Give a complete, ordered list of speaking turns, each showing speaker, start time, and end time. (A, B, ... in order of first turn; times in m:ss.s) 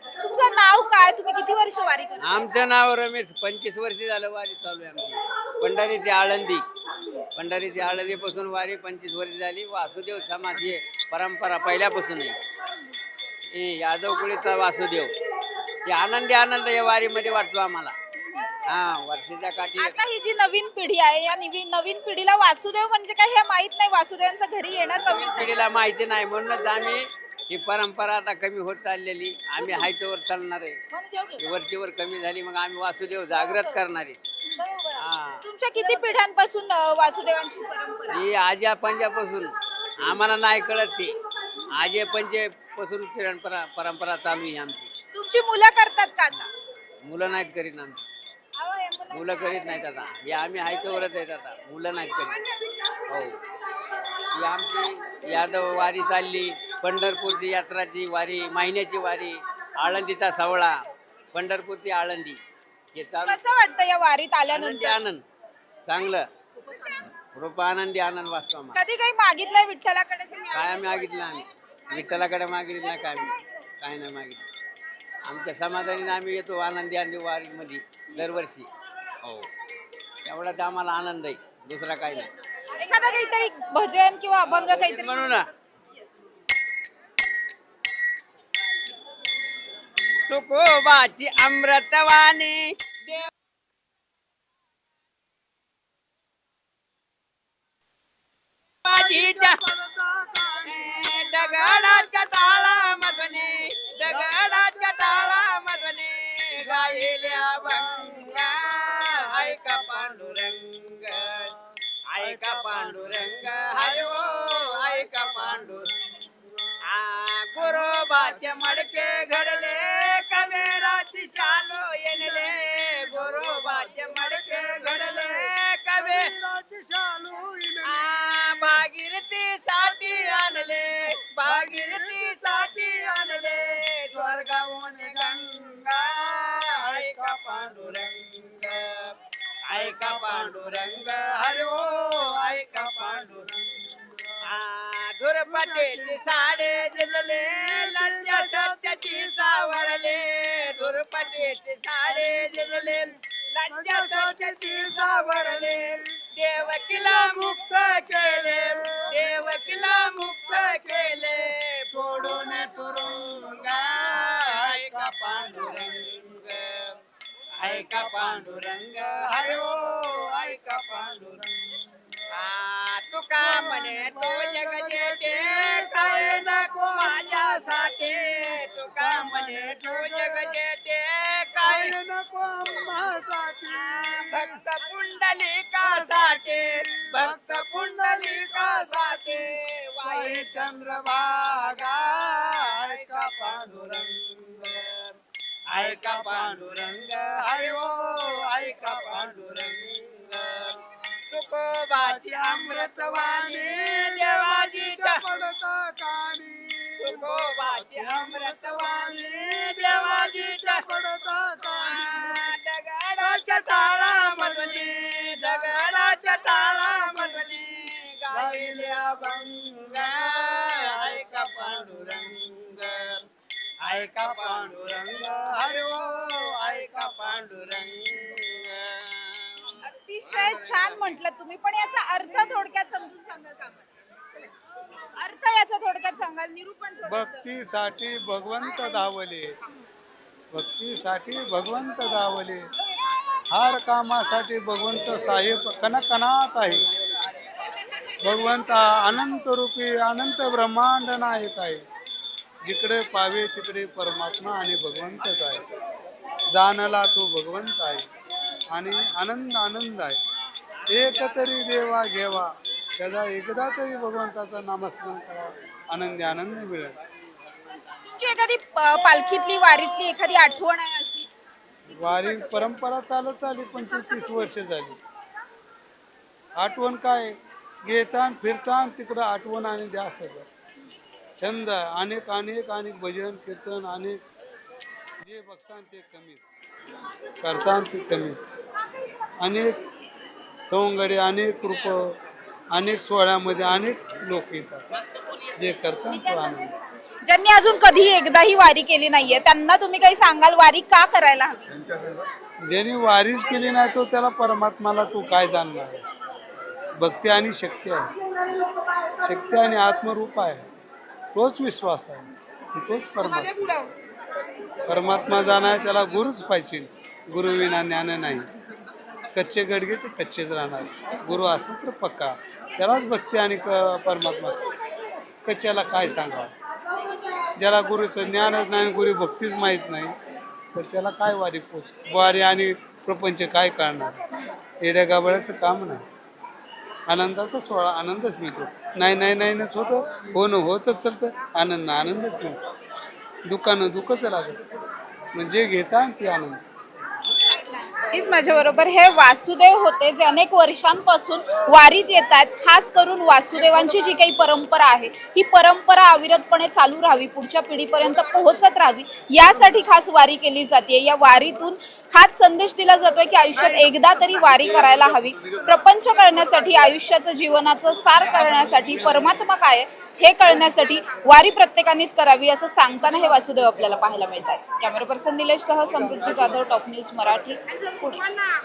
0:00.3-0:02.5 A
0:02.2-0:06.6 B
0:07.4-0:12.4 B
0:13.5-0:15.1 B
0:15.9-0:18.0 B
0:18.6-0:20.0 B
0:19.8-0:25.6 A
0:25.0-0:30.8 B
0:30.9-0:31.4 A
0:31.4-0:34.2 B
0:34.5-0:38.2 A
0:35.0-0:35.4 B
0:38.1-0:39.5 B
0:40.0-0:41.2 B
0:41.7-0:44.9 B
0:45.1-0:46.5 A
0:47.0-0:48.0 B
0:48.6-0:49.3 A
0:49.1-0:52.4 B
0:53.1-0:53.4 B
0:54.3-1:00.7 B
1:01.3-1:02.4 B
1:03.0-1:03.4 B
1:03.2-1:05.0 A
1:04.5-1:05.2 B
1:05.9-1:06.3 B
1:07.4-1:08.8 B
1:08.7-1:10.9 A
1:10.5-1:14.4 B
1:15.2-1:18.7 B
1:19.2-1:19.5 B
1:20.2-1:22.3 B
1:22.8-1:25.4 A
1:24.5-1:25.5 B
1:30.3-1:33.3 B
1:38.8-1:39.7 B
1:38.9-1:41.3 C
1:40.6-1:51.5 B
1:44.1-1:44.4 C
1:47.1-1:47.9 C
1:49.7-1:50.0 C
1:52.1-1:55.9 B
1:52.2-1:54.0 C
1:54.8-1:55.9 C
1:56.5-1:56.8 C
1:56.9-2:06.3 B
1:57.8-1:58.6 C
2:02.2-2:02.5 C
2:03.4-2:08.8 C
2:07.8-2:19.0 B
2:11.4-2:12.5 C
2:14.1-2:15.8 C
2:16.8-2:18.1 C
2:19.7-2:23.5 B
2:19.8-2:21.7 C
2:22.4-2:24.3 C
2:24.5-2:46.9 B
2:25.5-2:29.9 C
2:32.1-2:33.0 C
2:33.7-2:36.2 C
2:37.0-2:37.6 C
2:38.2-2:39.4 C
2:42.1-2:42.6 C
2:47.6-2:51.4 B
2:48.1-2:48.4 C
2:49.2-2:50.5 C
2:51.0-2:51.5 C
2:52.3-3:02.0 B
2:53.4-2:57.8 C
2:58.9-3:00.6 C
3:01.6-3:04.6 C
3:03.7-3:15.1 B
3:05.8-3:09.1 C
3:10.0-3:14.1 C
3:15.7-3:20.7 B
3:15.8-3:19.7 C
3:21.3-3:25.2 B
3:22.0-3:32.3 C
3:27.0-3:30.8 B
3:31.6-3:43.1 B
3:33.2-3:35.8 C
3:38.3-3:39.0 C
3:43.8-3:51.0 B
3:44.2-3:44.8 C
3:49.8-3:53.9 A
3:55.2-3:57.5 A
3:57.0-3:59.6 C
4:00.5-4:02.7 C
4:03.5-4:06.9 C
4:08.2-4:11.8 C
4:12.6-4:15.6 C
4:16.5-4:18.1 C
4:18.7-4:20.2 C
4:20.9-4:27.0 C
4:28.1-4:31.3 A
4:31.9-4:35.0 C
4:36.6-4:40.5 C
4:41.4-4:44.2 C
4:45.2-4:46.6 C
4:47.4-4:48.5 C
4:49.4-4:49.8 C
4:50.6-4:52.2 C
4:52.7-4:54.8 C
4:55.6-4:56.7 C
4:57.2-5:01.6 A
5:02.6-5:06.0 C
5:07.0-5:08.1 C
5:09.2-5:10.6 C
5:11.3-5:13.8 C
5:14.8-5:18.5 C
5:19.3-5:24.6 C
5:25.4-5:26.5 C
5:27.6-5:30.2 C
5:30.7-5:34.2 C
5:34.8-5:36.0 C
5:37.1-5:42.6 C
5:43.5-5:44.6 C
5:45.3-5:46.6 C
5:47.6-6:18.4 A